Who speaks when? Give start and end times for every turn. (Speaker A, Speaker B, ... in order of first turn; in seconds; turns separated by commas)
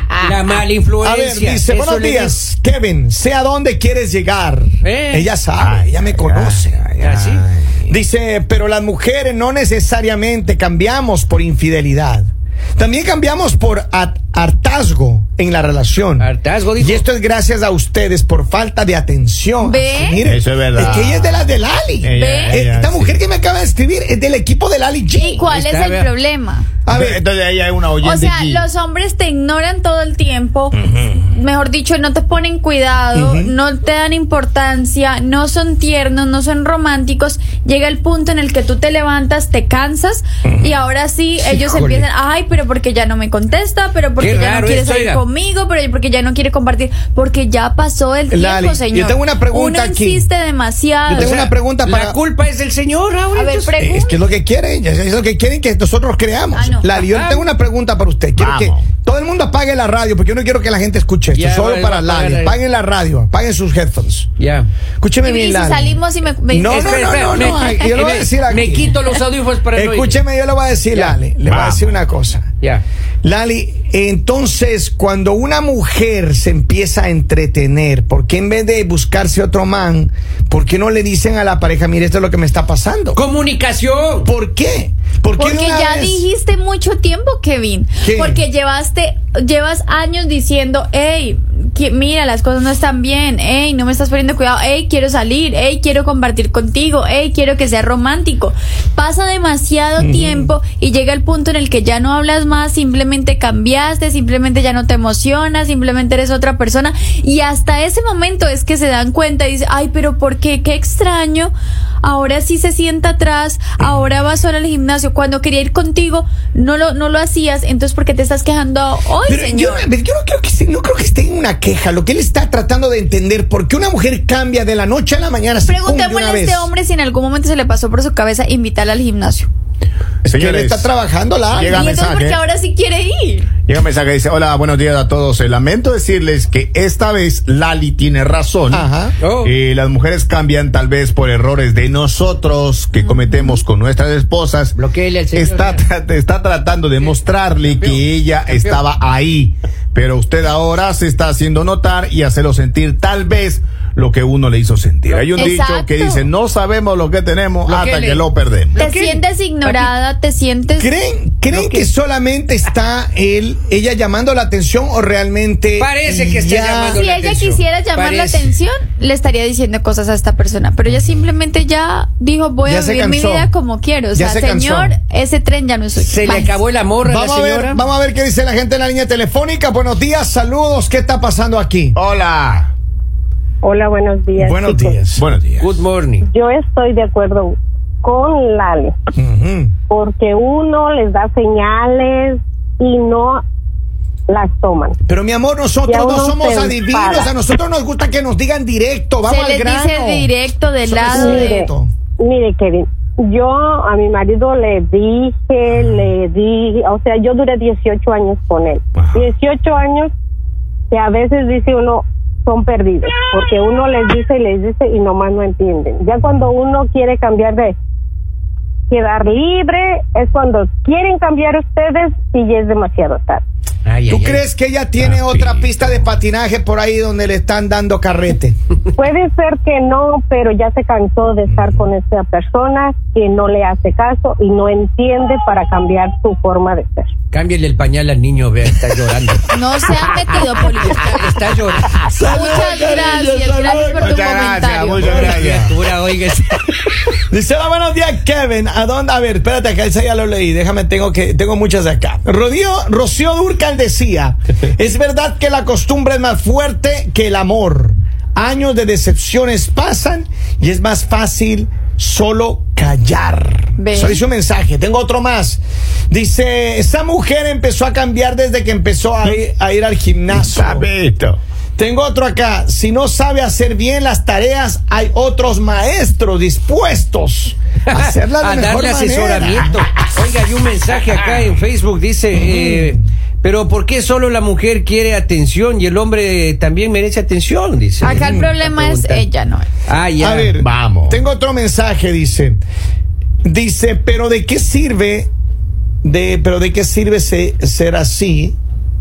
Speaker A: 0.2-2.4, Speaker B: 1.0-6.8, Speaker A: 4.8-5.3, Speaker C: 5.6-8.0, Speaker A: 7.0-7.5, Speaker B: 7.9-25.5, Speaker A: 16.2-17.0, Speaker D: 19.6-20.2, Speaker C: 20.2-23.2, Speaker D: 22.1-22.6, Speaker D: 25.1-26.7, Speaker A: 25.5-26.1, Speaker B: 26.9-27.2, Speaker C: 26.9-28.6, Speaker D: 28.0-51.3, Speaker B: 33.1-33.5, Speaker B: 40.5-40.7, Speaker A: 41.4-42.0, Speaker A: 44.2-45.2, Speaker B: 48.3-50.3, Speaker B: 51.1-52.2, Speaker A: 51.1-53.7, Speaker D: 53.4-54.2, Speaker B: 53.8-64.3, Speaker D: 56.5-56.9, Speaker A: 57.0-57.5, Speaker C: 58.4-58.9, Speaker A: 61.3-62.6, Speaker A: 64.4-64.7, Speaker B: 65.0-69.0, Speaker D: 65.2-67.9, Speaker A: 66.7-70.2, Speaker B: 69.7-72.5, Speaker A: 70.9-71.2, Speaker C: 71.5-72.0, Speaker B: 73.2-83.2, Speaker A: 83.2-84.3, Speaker B: 84.2-86.3, Speaker D: 85.4-111.5, Speaker B: 88.0-88.4, Speaker B: 100.0-100.5, Speaker D: 112.0-119.9, Speaker B: 119.2-126.7, Speaker D: 125.7-129.5, Speaker C: 130.2-130.9, Speaker B: 130.3-132.0, Speaker C: 131.5-132.4, Speaker D: 131.6-133.5, Speaker C: 133.7-138.9, Speaker B: 138.7-139.1, Speaker A: 139.2-139.5, Speaker C: 139.4-144.7, Speaker D: 143.0-143.6, Speaker A: 144.8-145.8, Speaker C: 145.3-158.8, Speaker A: 147.6-148.8, Speaker A: 155.1-155.5, Speaker D: 155.3-156.3, Speaker A: 157.6-158.2, Speaker A: 158.8-159.9, Speaker D: 158.8-160.9, Speaker B: 160.8-167.0, Speaker A: 161.5-161.9, Speaker A: 165.8-168.5, Speaker D: 166.9-176.6, Speaker B: 172.6-173.5, Speaker B: 174.1-175.0, Speaker A: 176.0-177.8, Speaker B: 177.0-182.0, Speaker C: 181.9-182.7, Speaker E: 183.6-185.0, Speaker B: 184.4-185.2, Speaker C: 185.1-185.8, Speaker A: 185.6-186.2, Speaker E: 186.2-189.0, Speaker B: 189.2-189.7, Speaker E: 189.9-193.4, Speaker E: 194.3-194.9, Speaker B: 195.1-200.3, Speaker E: 195.9-197.3, Speaker D: 199.2-201.6, Speaker B: 200.8-201.9, Speaker E: 201.1-210.1, Speaker C: 209.0-209.2, Speaker E: 210.9-217.8, Speaker E: 218.9-223.4, Speaker A: 223.8-224.4, Speaker B: 224.1-228.6, Speaker E: 229.0-237.1, Speaker B: 231.5-231.8, Speaker A: 237.3-239.5, Speaker D: 239.5-241.1, Speaker A: 240.8-242.0, Speaker B: 242.1-244.4, Speaker D: 242.3-245.3, Speaker C: 243.9-245.7, Speaker A: 245.0-246.7, Speaker B: 247.2-270.9, Speaker D: 263.8-264.2, Speaker C: 270.3-271.4, Speaker B: 271.8-279.7, Speaker A: 277.9-289.2, Speaker B: 282.4-282.9, Speaker D: 288.0-289.7, Speaker B: 288.1-288.5, Speaker A: 289.9-290.6, Speaker B: 290.2-292.6, Speaker C: 290.6-291.2, Speaker B: 293.4-295.3, Speaker B: 296.0-298.6